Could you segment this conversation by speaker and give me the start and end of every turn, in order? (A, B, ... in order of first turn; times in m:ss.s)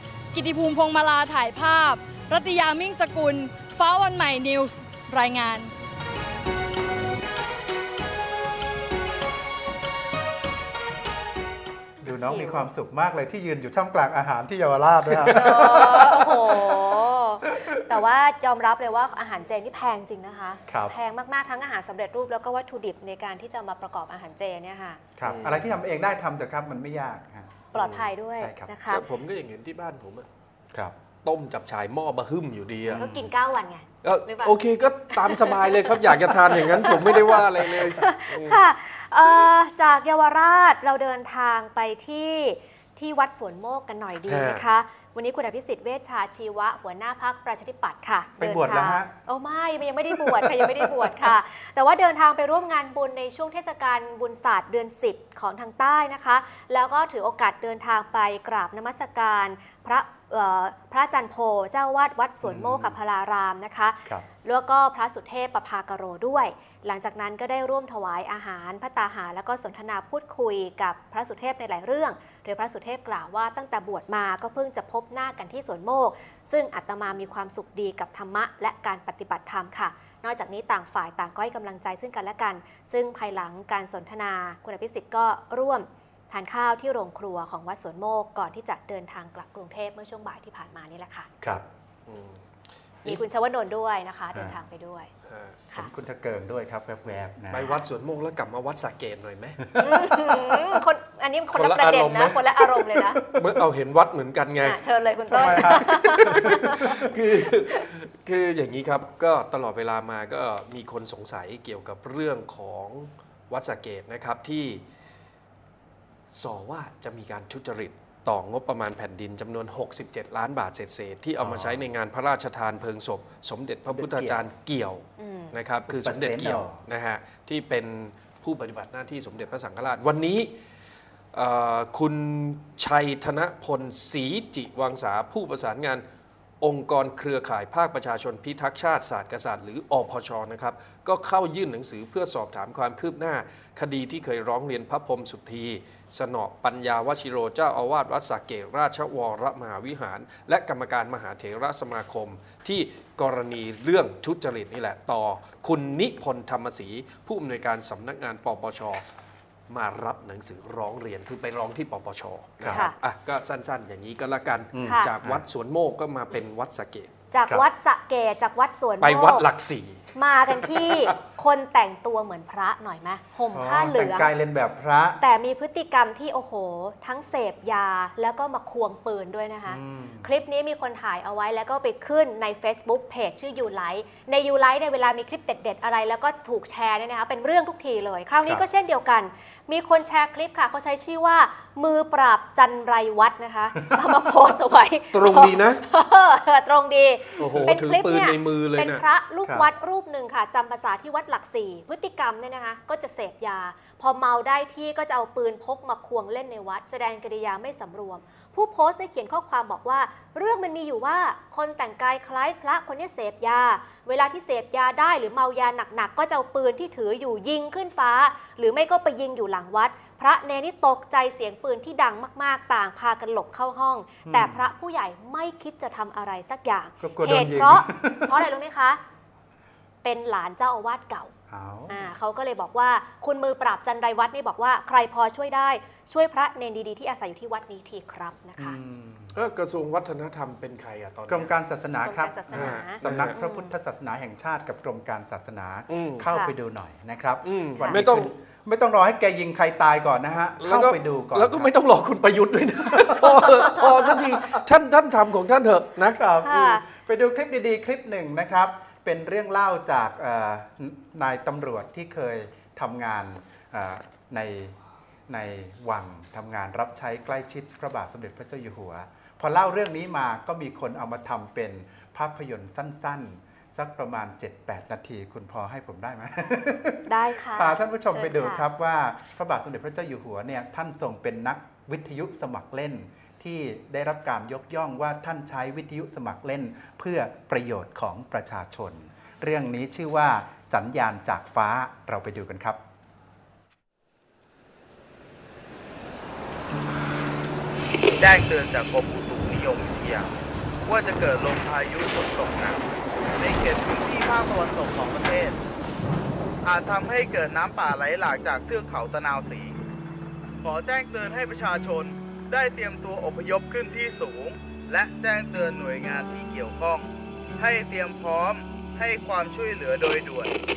0:00.3-0:05.7 A
0:12.0-0:16.6 B
0:12.2-0:12.7 C
0:15.2-0:16.0 D
0:15.4-0:25.0 C
0:20.7-0:20.9 B
0:25.2-0:27.6 B
0:25.2-0:25.7 D
0:27.7-0:29.0 C
0:27.8-0:28.1 D
0:28.4-0:28.7 B
0:28.9-0:30.3 D
0:31.2-0:33.1 D
0:32.9-0:33.3 B
0:32.9-0:34.6 C
0:34.0-0:38.6 D
0:35.2-0:35.8 C
0:36.6-1:31.3 C
0:44.3-0:44.6 D
0:48.4-0:49.1 B
0:50.1-0:51.3 B
1:02.4-1:03.0 B
1:32.1-1:32.4 D
1:33.0-1:35.1 C
1:35.3-1:35.6 D
1:35.7-1:37.7 B
1:37.5-1:39.6 D
1:39.8-1:43.2 C
1:41.5-1:44.8 D
1:44.6-1:47.0 C
1:45.3-1:47.1 B
1:45.4-1:54.8 D
1:56.3-2:10.5 D
2:01.4-2:01.8 B
2:03.9-2:04.4 B
2:05.2-2:05.5 C
2:05.9-2:06.8 B
2:11.3-2:16.0 D
2:16.6-2:39.0 D
2:39.7-2:47.1 D
2:42.6-2:42.9 B
2:42.7-2:43.0 C
2:44.7-2:45.4 B
2:44.8-2:45.1 C
2:47.3-2:49.5 C
2:49.0-2:51.1 D
2:50.2-2:54.3 C
2:53.5-2:55.2 B
2:55.2-3:49.0 C
2:59.7-3:00.3 B
3:15.1-3:15.8 D
3:17.4-3:19.0 D
3:44.3-3:44.7 B
3:47.0-3:48.5 B
3:50.0-3:51.3 C
3:51.5-3:52.1 B
3:51.9-3:58.8 C
3:58.6-3:59.4 B
3:59.3-4:01.5 D
4:01.3-4:11.7 B
4:02.0-4:03.7 C
4:02.5-4:03.4 D
4:05.9-4:06.3 D
4:06.3-4:06.5 C
4:07.4-4:08.3 D
4:10.6-4:16.2 D
4:12.9-4:13.9 B
4:16.1-4:24.8 B
4:16.4-4:16.8 C
4:25.3-4:52.8 B
4:37.1-4:38.6 C
4:58.2-5:00.3 E
5:00.8-5:02.8 E
5:03.4-5:05.6 E
5:06.6-5:09.8 E
5:10.6-5:20.6 E